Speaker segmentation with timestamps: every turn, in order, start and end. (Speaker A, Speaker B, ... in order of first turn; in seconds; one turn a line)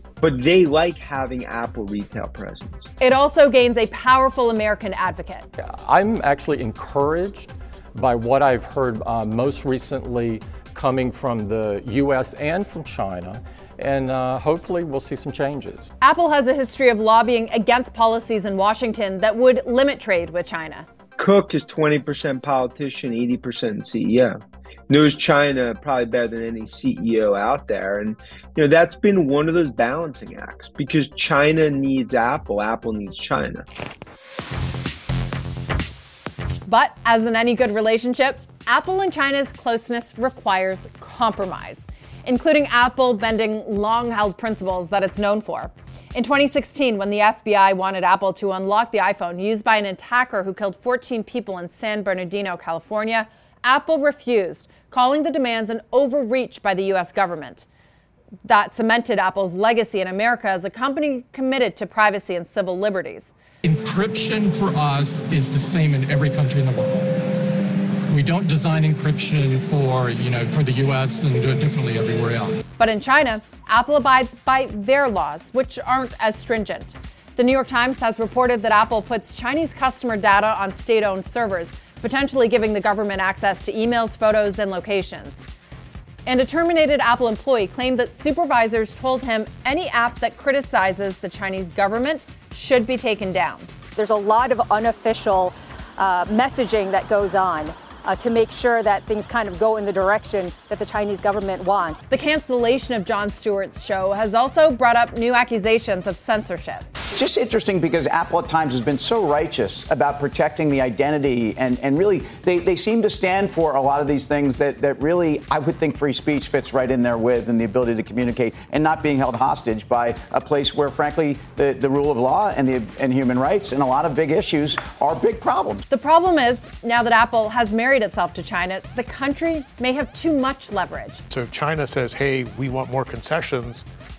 Speaker A: 0.2-2.9
Speaker B: 3.0-5.5
Speaker C: 5.6-15.9
Speaker B: 16.0-20.9
Speaker A: 21.2-24.4
Speaker A: 24.9-33.6
Speaker B: 36.7-57.7
Speaker B: 58.5-63.3
Speaker D: 63.8-67.0
Speaker D: 68.1-72.5
Speaker B: 72.8-85.4
Speaker B: 86.3-93.8
Speaker E: 94.0-102.0
Speaker B: 102.1-106.9
Speaker F: 107.1-125.8
Speaker B: 125.9-131.2
Speaker G: 131.3-133.8